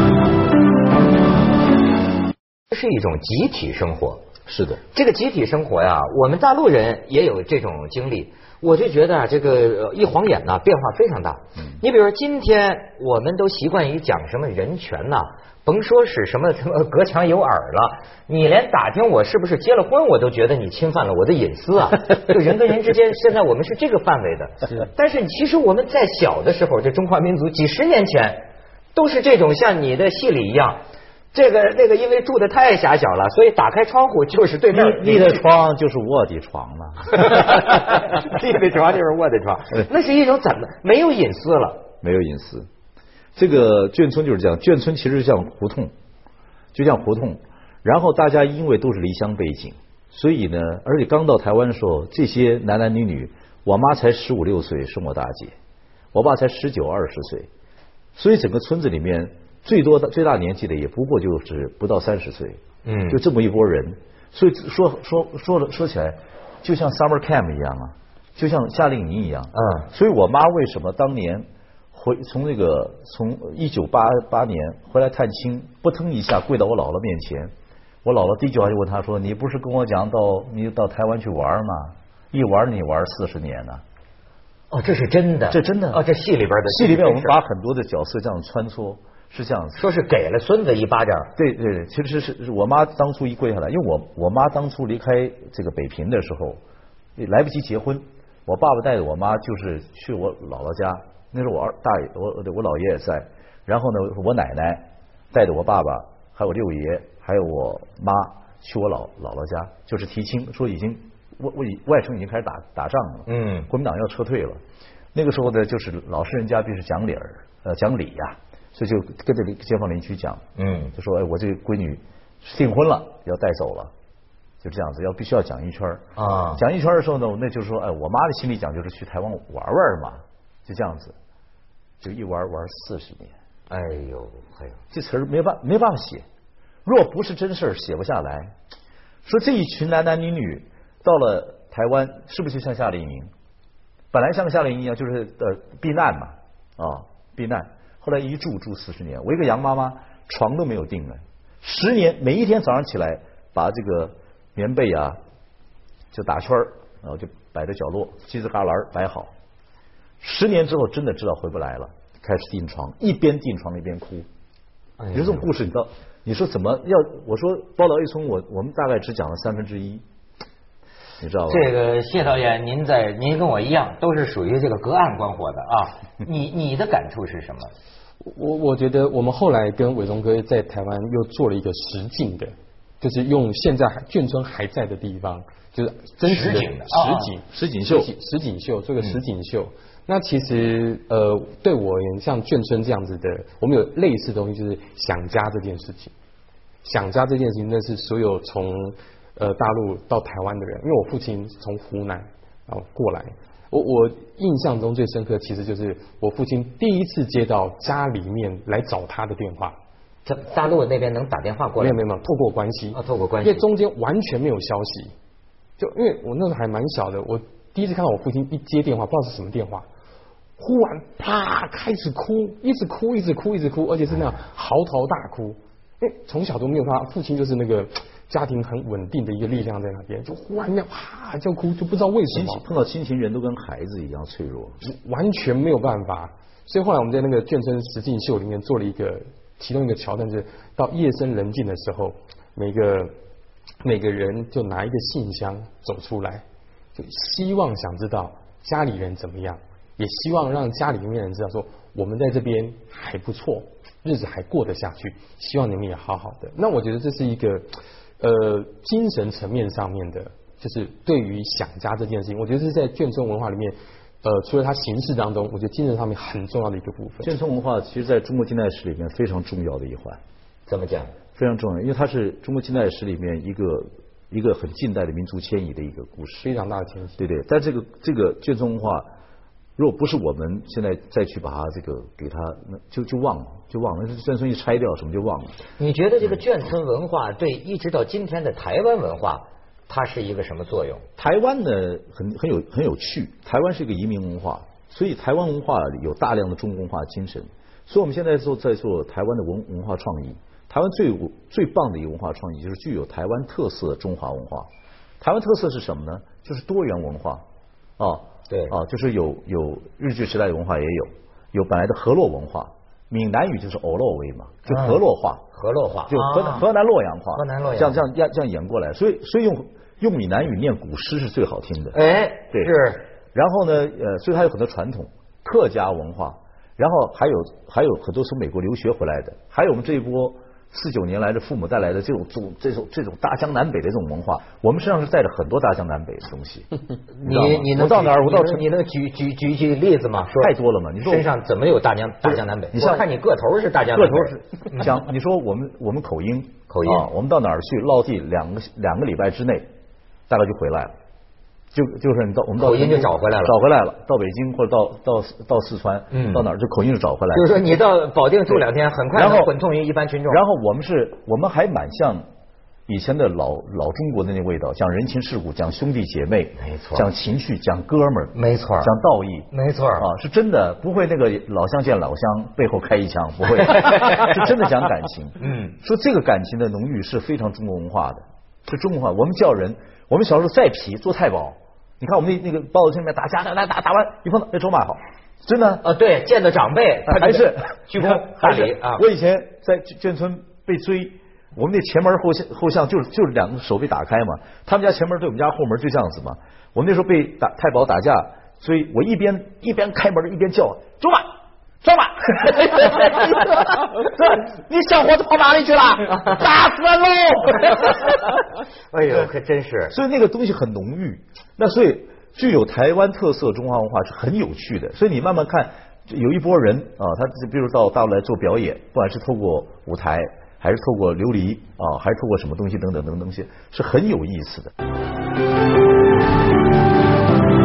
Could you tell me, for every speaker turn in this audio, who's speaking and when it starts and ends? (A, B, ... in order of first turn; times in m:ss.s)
0:02.7-0:04.2 A
0:04.5-0:04.8 B
0:04.9-0:30.8 A
0:31.3-0:35.5 A
0:34.7-0:37.5 B
0:37.1-0:41.9 A
0:42.0-0:42.7 B
0:43.4-0:45.9 B
0:46.7-0:55.5 B
0:56.1-0:57.5 B
0:58.2-1:17.5 B
1:02.8-1:03.2 A
1:09.6-1:09.9 A
1:18.0-1:23.8 B
1:24.7-1:27.4 A
1:25.5-1:26.0 B
1:26.7-1:29.8 B
1:29.8-1:31.3 A
1:31.4-1:36.6 B
1:37.2-1:54.6 B
1:53.3-1:53.7 A
1:55.1-2:00.4 B
2:00.6-2:00.9 A
2:00.9-2:03.9 B
2:04.6-2:11.2 B
2:06.2-2:06.6 A
2:12.0-2:13.3 B
2:13.7-2:14.8 A
2:14.9-2:16.2 B
2:16.8-2:18.6 B
2:19.2-2:23.3 B
2:24.1-2:35.2 B
2:36.1-2:39.3 B
2:40.2-2:44.3 B
2:45.0-2:45.5 A
2:45.1-2:50.0 B
2:51.2-2:51.7 B
2:51.5-2:57.7 A
2:58.2-3:16.1 C
3:06.2-3:07.3 A
3:07.5-3:08.1 B
3:16.8-3:29.8 C
3:30.2-3:32.0 A
3:31.8-3:35.1 C
3:32.9-3:33.6 A
3:35.8-3:39.9 C
3:40.6-3:52.6 C
3:52.3-3:54.8 B
3:54.8-4:03.1 C
4:03.8-4:06.4 C
4:07.0-4:17.7 C
4:18.2-4:27.4 C
4:27.2-4:30.2 B
4:30.7-4:31.1 A
4:31.4-4:36.5 B
4:36.4-4:37.2 C
4:37.2-4:39.1 B
4:39.8-4:45.6 B
4:45.8-4:51.1 A
4:51.2-5:04.7 B
5:05.2-5:07.4 B
5:08.0-5:15.4 B
5:08.5-5:08.8 A
5:14.7-5:15.0 A
5:15.5-5:16.7 A
5:16.1-5:22.0 B
5:17.4-5:18.0 A
5:21.9-5:23.0 A
5:23.3-5:36.7 B
5:37.2-5:45.0 A
5:37.2-5:38.7 B
5:40.4-5:41.3 B
5:42.2-5:43.1 B
5:43.9-5:49.7 B
5:46.7-5:47.1 A
5:50.3-5:50.9 B
5:51.7-5:57.8 B
5:52.6-5:53.6 A
5:56.1-5:56.5 A
5:57.3-6:00.4 A
5:59.1-5:59.5 B
6:00.3-6:02.3 B
6:02.9-6:25.8 B
6:06.6-6:07.1 A
6:08.4-6:08.9 A
6:09.5-6:10.1 A
6:13.7-6:14.4 A
6:15.4-6:15.8 A
6:25.8-6:29.0 A
6:27.1-6:41.3 B
6:41.8-6:48.2 B
6:47.7-6:48.1 A
6:48.9-6:50.0 A
6:49.9-7:04.7 B